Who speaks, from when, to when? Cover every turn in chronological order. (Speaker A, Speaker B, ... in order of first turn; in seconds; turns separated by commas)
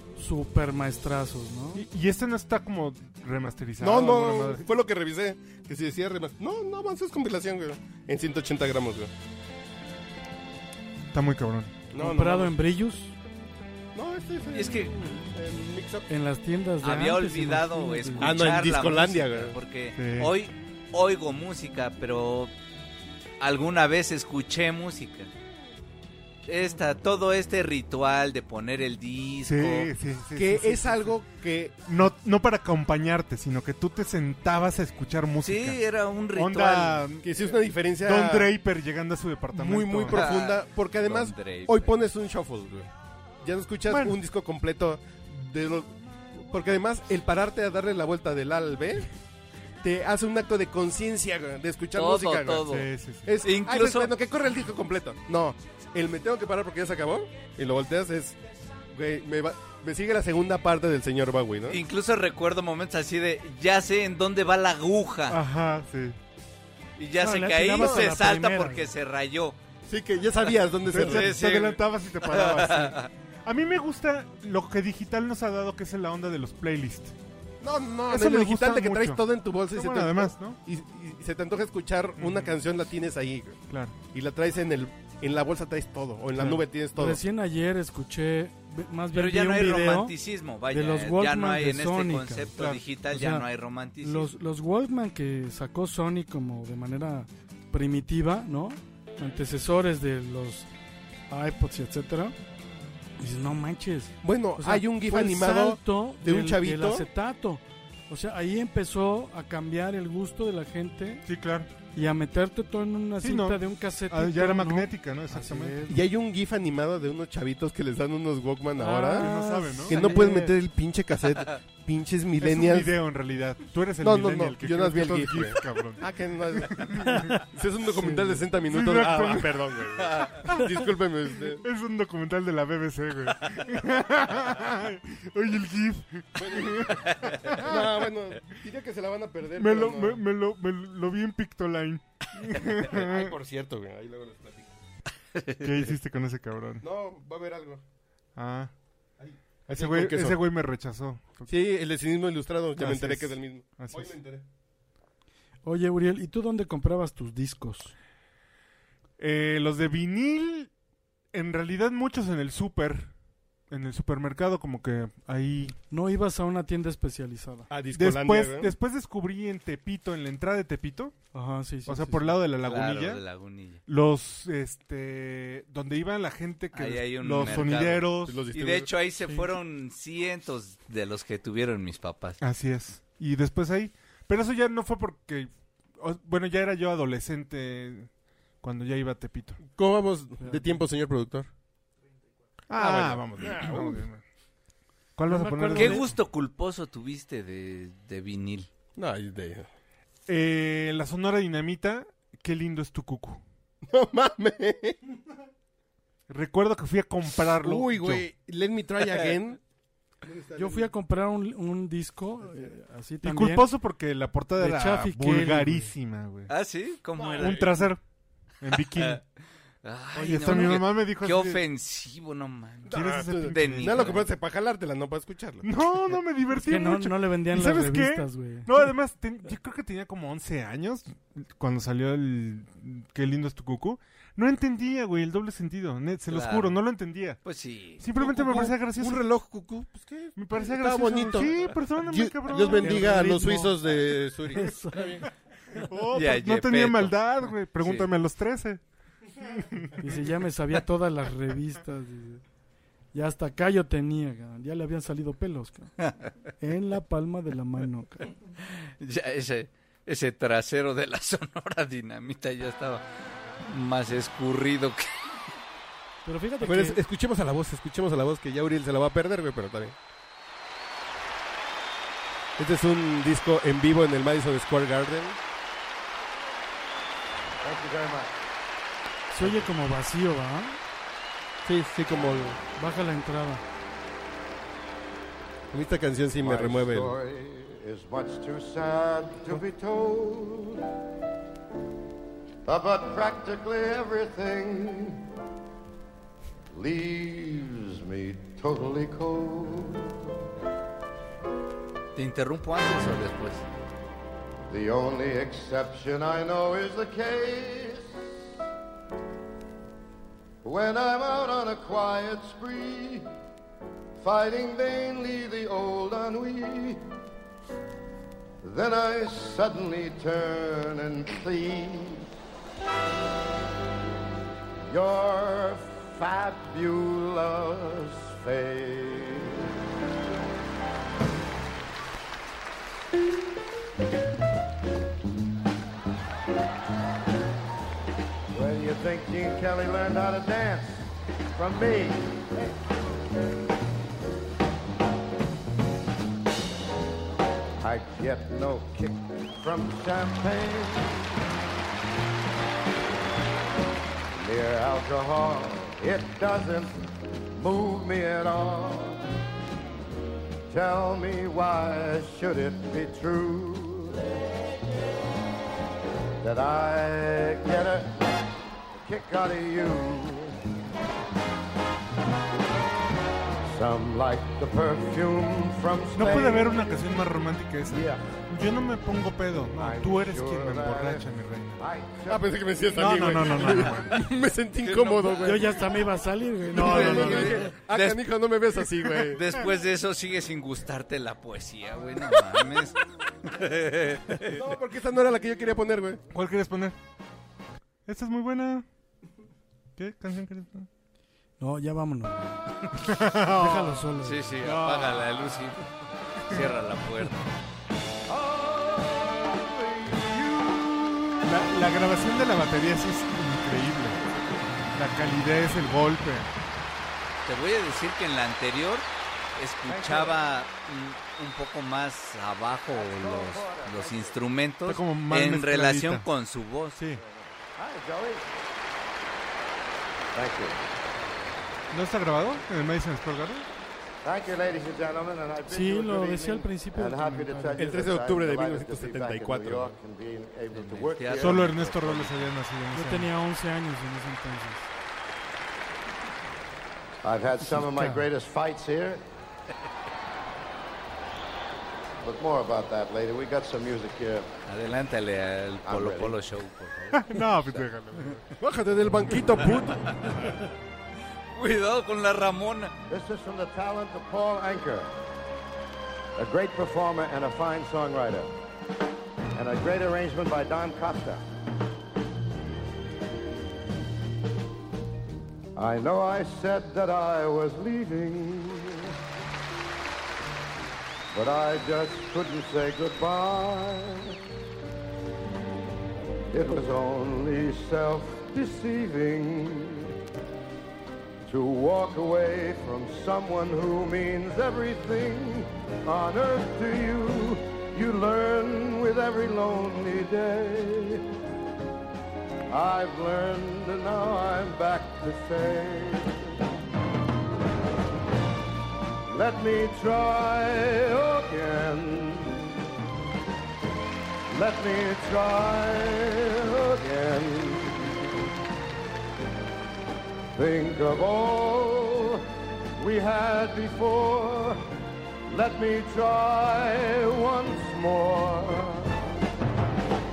Speaker A: 0.1-1.8, Speaker B: 1.7-4.7, Speaker C: 3.8-9.1, Speaker B: 11.1-11.7, Speaker C: 11.9-12.5, Speaker A: 12.0-13.1, Speaker C: 13.9-16.1, Speaker D: 14.5-14.9, Speaker A: 16.1-18.3, Speaker D: 16.8-22.5, Speaker C: 18.2-19.6, Speaker B: 19.9-20.3, Speaker D: 23.4-25.3, Speaker D: 26.4-29.9, Speaker B: 29.4-31.1, Speaker C: 30.3-31.8, Speaker B: 31.8-35.8, Speaker D: 35.4-37.0, Speaker B: 36.3-37.3, Speaker C: 37.2-38.5, Speaker B: 38.0-40.3, Speaker C: 39.5-42.9, Speaker D: 40.1-41.9, Speaker C: 43.4-49.1, Speaker B: 43.9-44.2, Speaker C: 49.8-52.7, Speaker D: 51.9-52.9, Speaker B: 52.6-53.3, Speaker C: 53.2-58.4, Speaker D: 53.4-54.1, Speaker C: 58.9-61.8, Speaker D: 61.7-65.4, Speaker B: 65.3-66.2, Speaker D: 67.0-69.6, Speaker A: 67.2-68.9, Speaker C: 67.8-68.1, Speaker C: 69.9-71.3, Speaker B: 70.8-77.1, Speaker D: 70.9-73.1, Speaker C: 77.6-87.2, Speaker B: 78.1-80.6, Speaker B: 82.2-82.6, Speaker B: 83.7-84.0, Speaker A: 86.9-90.1, Speaker D: 89.1-94.3, Speaker A: 90.7-92.5, Speaker B: 92.6-92.8, Speaker A: 93.1-93.5, Speaker A: 94.0-100.7, Speaker A: 101.3-102.3, Speaker A: 103.2-111.2, Speaker C: 104.2-107.1, Speaker B: 111.2-111.7, Speaker A: 111.9-116.0, Speaker B: 113.2-115.8, Speaker C: 115.9-122.9, Speaker A: 118.8-120.5, Speaker B: 119.1-120.5, Speaker B: 122.4-127.4, Speaker C: 124.0-131.6, Speaker A: 128.0-128.4, Speaker B: 128.7-129.8, Speaker B: 131.6-138.1, Speaker C: 136.3-140.2, Speaker B: 139.6-143.3, Speaker C: 142.7-144.7, Speaker D: 145.3-145.6, Speaker B: 145.6-146.8, Speaker C: 146.8-147.8, Speaker B: 148.3-148.7, Speaker C: 149.2-150.4, Speaker B: 149.7-151.5, Speaker C: 151.5-154.4, Speaker B: 152.8-154.2, Speaker A: 155.6-157.9, Speaker B: 159.2-160.7, Speaker B: 161.3-163.1, Speaker B: 163.7-165.8, Speaker A: 165.9-167.7, Speaker C: 167.7-168.7, Speaker B: 167.9-171.1, Speaker A: 171.3-172.4, Speaker B: 171.8-173.2, Speaker D: 172.6-173.8, Speaker B: 173.9-178.4, Speaker D: 176.7-182.4, Speaker C: 177.4-178.9, Speaker B: 182.4-188.1, Speaker B: 188.6-189.6, Speaker C: 189.6-191.5, Speaker A: 190.4-190.8, Speaker B: 192.7-194.2, Speaker C: 192.8-194.0, Speaker B: 195.2-196.1, Speaker A: 195.3-196.1, Speaker D: 195.7-198.7, Speaker C: 198.9-199.7, Speaker B: 200.3-203.4, Speaker C: 203.9-205.0, Speaker B: 206.3-208.3, Speaker C: 207.6-209.6, Speaker D: 209.0-209.4, Speaker C: 210.2-210.9, Speaker A: 210.6-213.7, Speaker B: 213.2-216.5, Speaker A: 214.6-215.9, Speaker D: 216.5-217.8, Speaker C: 217.2-217.7, Speaker B: 217.3-218.0, Speaker B: 218.6-219.2, Speaker D: 218.8-219.2, Speaker D: 219.8-224.3, Speaker B: 220.1-221.6, Speaker A: 220.3-220.7, Speaker C: 222.8-225.7, Speaker B: 222.9-224.2, Speaker B: 225.6-237.4, Speaker A: 226.6-228.9, Speaker D: 236.3-236.8, Speaker D: 237.4-238.0, Speaker B: 238.0-239.3, Speaker C: 238.2-245.3, Speaker B: 240.3-243.4, Speaker A: 242.7-243.7, Speaker A: 244.5-245.0, Speaker B: 245.8-248.8, Speaker D: 246.1-247.2, Speaker D: 247.8-248.1, Speaker B: 249.4-250.0, Speaker A: 250.0-252.4, Speaker A: 253.1-255.9, Speaker A: 256.6-258.3, Speaker D: 258.6-263.0, Speaker D: 263.6-265.2, Speaker A: 266.2-267.0, Speaker C: 266.6-269.9, Speaker C: 272.6-275.4, Speaker E: 277.6-278.4, Speaker A: 279.3-280.8, Speaker C: 279.4-279.7, Speaker C: 281.6-282.6, Speaker A: 282.8-283.6, Speaker C: 285.7-287.2, Speaker E: 286.4-290.8, Speaker E: 292.6-295.2, Speaker E: 296.7-300.3, Speaker D: 302.1-303.7, Speaker E: 304.6-308.2, Speaker E: 310.6-313.3, Speaker E: 314.2-317.0, Speaker E: 318.6-322.3, Speaker E: 324.9-329.6, Speaker E: 338.5-342.8, Speaker E: 347.8-351.3, Speaker E: 354.3-357.0, Speaker E: 357.5-359.2, Speaker E: 360.7-364.2, Speaker E: 366.4-368.3, Speaker E: 368.9-370.6, Speaker E: 373.6-377.0, Speaker B: 376.1-381.8, Speaker E: 377.9-378.2, Speaker E: 379.8-381.3, Speaker E: 381.8-382.6, Speaker C: 382.3-385.8, Speaker B: 382.9-384.2, Speaker D: 384.8-385.9, Speaker A: 385.4-387.7, Speaker C: 386.7-389.4, Speaker B: 386.7-387.6, Speaker D: 387.1-388.3, Speaker D: 389.1-394.6, Speaker C: 394.4-396.2, Speaker B: 396.3-396.9, Speaker B: 398.1-398.9, Speaker B: 400.0-400.9, Speaker A: 401.6-405.2, Speaker B: 403.1-404.0, Speaker D: 404.2-405.8, Speaker D: 406.4-407.4, Speaker E: 408.3-411.4, Speaker B: 411.4-414.2, Speaker B: 414.9-416.5, Speaker D: 417.4-427.0, Speaker E: 419.9-420.4, Speaker E: 422.9-424.4, Speaker B: 424.9-426.2, Speaker B: 426.9-427.2, Speaker E: 427.2-428.6, Speaker E: 430.3-430.8, Speaker B: 431.9-433.7, Speaker E: 434.2-441.9, Speaker A: 435.7-437.9, Speaker C: 437.8-439.9, Speaker D: 440.7-442.5, Speaker B: 441.4-443.3, Speaker A: 442.9-444.9, Speaker E: 447.2-449.2, Speaker A: 447.7-448.2, Speaker E: 452.2-454.5, Speaker D: 454.7-457.8, Speaker E: 455.8-456.4, Speaker B: 457.1-458.4, Speaker C: 458.6-460.2, Speaker D: 460.1-460.4, Speaker D: 461.5-462.9, Speaker E: 463.1-465.1, Speaker E: 466.4-468.5, Speaker E: 469.5-471.4, Speaker E: 475.8-479.1, Speaker E: 481.3-484.4, Speaker E: 486.5-490.1, Speaker E: 491.4-501.2, Speaker E: 502.7-506.5, Speaker E: 509.3-512.7, Speaker E: 514.5-517.9, Speaker E: 520.5-522.4, Speaker E: 523.0-524.8, Speaker E: 525.5-529.1